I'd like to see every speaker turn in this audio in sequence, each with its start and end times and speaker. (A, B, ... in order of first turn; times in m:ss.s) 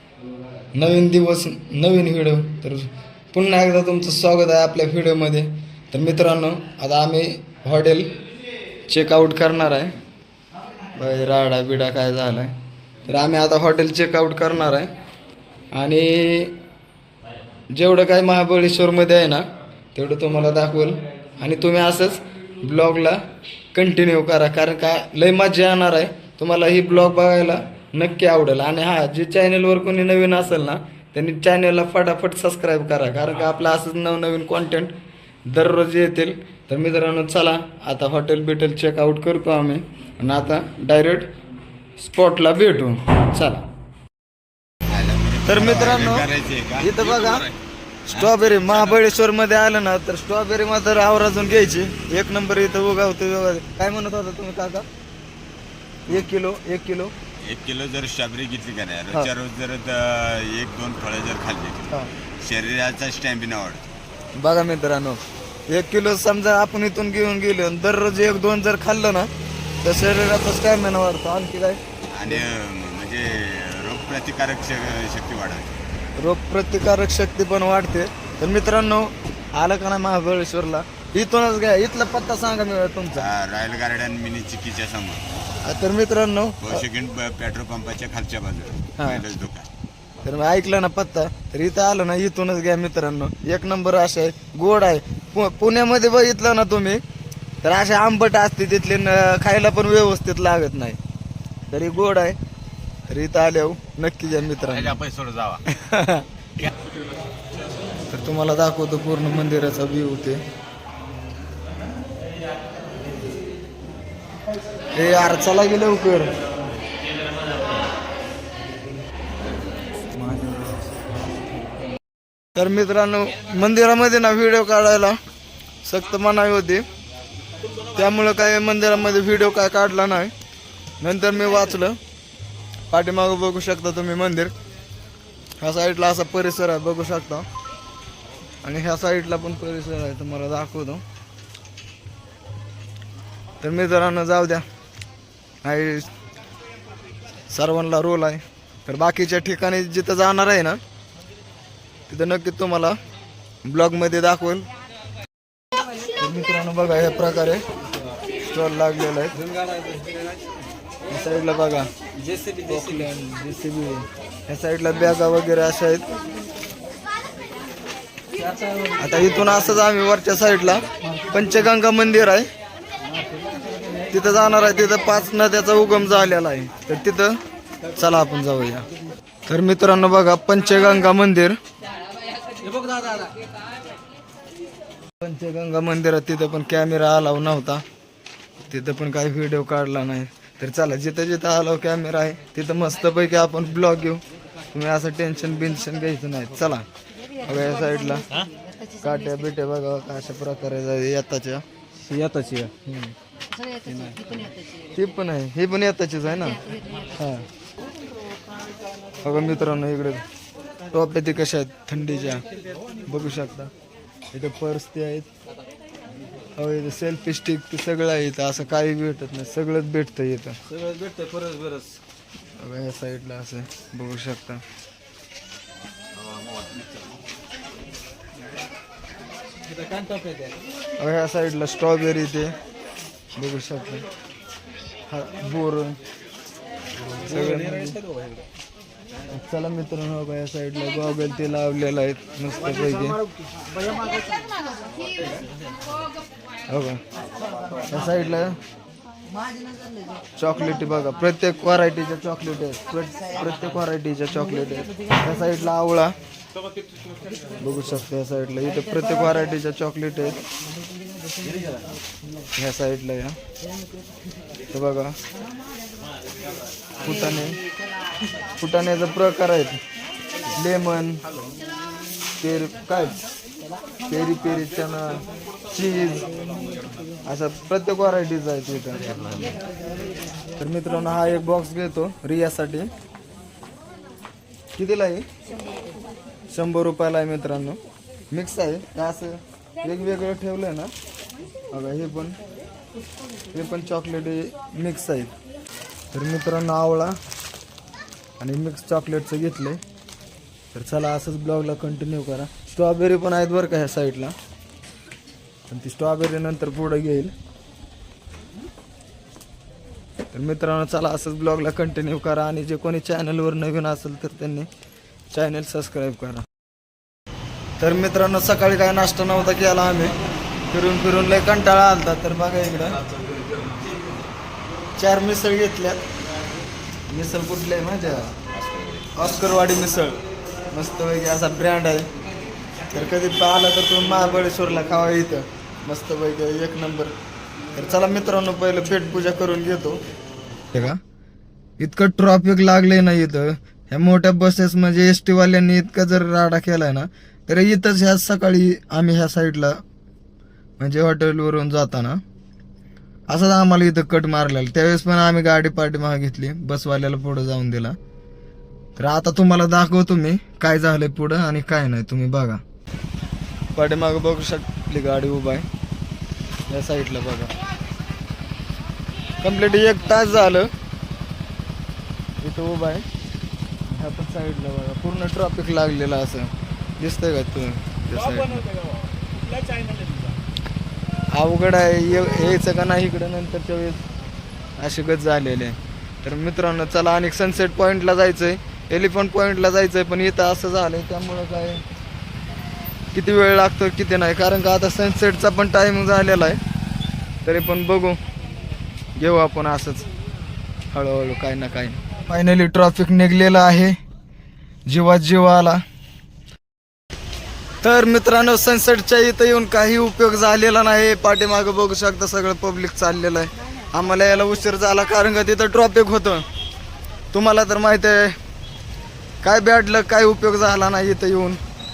0:00.7-0:08.1 A
0:08.9-0:09.9 A
0:11.0-0:12.5 A
0:13.1-0:14.9 A
0:15.7-0:16.6 A
0:17.7-0:19.4 A
0:19.9-0:23.2 A
0:23.7-0:34.9 A
0:35.5-0:41.3 A
0:42.0-0:43.6 A
0:44.9-0:47.6 B
0:45.4-0:46.3 A
0:46.8-0:47.5 A
0:48.1-0:54.8 A
0:48.2-0:48.9 B
0:56.1-0:57.1 A
0:57.4-1:03.9 B
1:04.4-1:09.3 A
1:09.8-1:12.4 A
1:12.1-1:15.8 B
1:16.2-1:23.3 A
1:23.1-1:25.2 B
1:25.6-1:26.8 A
1:26.6-1:29.7 B
1:29.0-1:29.2 A
1:30.2-1:37.0 A
1:37.6-1:41.0 A
1:41.7-1:42.4 A
1:43.1-1:45.0 A
1:44.7-1:45.6 B
1:45.6-1:46.2 A
1:48.1-1:50.4 A
1:54.9-1:56.3 A
2:00.1-2:00.9 A
2:02.6-2:05.1 A
2:05.8-2:06.8 A
2:07.9-2:10.3 A
2:11.0-2:12.0 A
2:12.9-2:14.5 A
2:15.6-2:17.5 A
2:18.6-2:21.0 A
2:23.6-2:24.6 A
2:25.6-2:26.1 A
2:27.5-2:30.8 A
2:32.1-2:32.9 A
2:33.6-2:34.6 A
2:36.2-2:37.6 A
2:38.4-2:39.5 A
2:39.4-2:40.6 C
2:41.1-2:41.9 A
2:42.2-2:43.0 C
2:42.6-2:46.1 A
2:48.4-2:49.0 C
2:49.0-2:52.5 A
2:54.1-2:57.4 A
2:58.0-2:58.8 A
2:59.5-3:01.6 A
3:02.6-3:03.3 C
3:05.2-3:07.8 A
3:08.6-3:14.2 A
3:14.7-3:16.8 A
3:17.4-3:18.2 A
3:19.0-3:21.6 A
3:22.0-3:22.7 C
3:22.8-3:23.1 A
3:23.8-3:24.2 A
3:24.9-3:26.6 A
3:27.1-3:27.4 A
3:29.2-3:30.2 A
3:30.9-3:32.4 A
3:33.1-3:33.7 A
3:34.3-3:35.3 A
3:36.6-3:40.6 A
3:40.7-3:42.0 C
3:42.6-3:44.6 A
3:46.3-3:46.8 C
3:49.7-3:50.5 C
3:51.0-3:52.5 A
3:53.4-3:54.0 A
3:55.1-3:56.0 A
3:57.2-3:58.0 A
3:57.2-3:58.4 C
3:59.3-4:03.2 A
4:06.7-4:07.0 A
4:07.9-4:08.6 A
4:10.4-4:16.1 A
4:17.6-4:20.4 A
4:22.5-4:23.4 A
4:24.7-4:25.2 A
4:27.0-4:27.6 A
4:28.6-4:29.8 A
4:30.5-4:31.2 A
4:32.4-4:33.2 A
4:34.1-4:36.3 A
4:37.2-4:39.1 A
4:40.6-4:42.9 A
4:44.8-4:45.2 A
4:46.5-4:47.8 A
4:48.3-4:50.9 A
4:51.7-4:52.4 A
4:53.5-4:55.3 A
4:56.1-4:57.1 A
4:58.4-4:59.8 A
5:00.7-5:04.3 A
5:05.7-5:07.3 A
5:10.3-5:14.7 A
5:15.3-5:16.4 A
5:17.8-5:20.1 A
5:20.7-5:23.0 A
5:25.0-5:26.0 A
5:27.1-5:28.3 A
5:28.5-5:29.2 B
5:29.1-5:30.2 A
5:30.7-5:32.1 A
5:32.9-5:37.1 A
5:37.7-5:40.0 A
5:40.7-5:41.0 A
5:41.8-5:49.7 A
5:50.8-5:52.2 A
5:53.3-5:57.9 A
5:59.0-6:02.6 A
6:03.7-6:05.6 A
6:06.7-6:07.5 A
6:09.4-6:10.7 A
6:12.4-6:13.0 A
6:13.9-6:18.7 A
6:19.7-6:20.1 C
6:21.3-6:24.0 A
6:24.8-6:31.8 A
6:33.1-6:36.6 A
6:37.4-6:38.2 A
6:39.2-6:40.1 A
6:40.9-6:44.0 A
6:44.9-6:45.8 A
6:47.8-6:56.4 A
6:57.3-6:58.4 A
6:59.4-7:01.6 A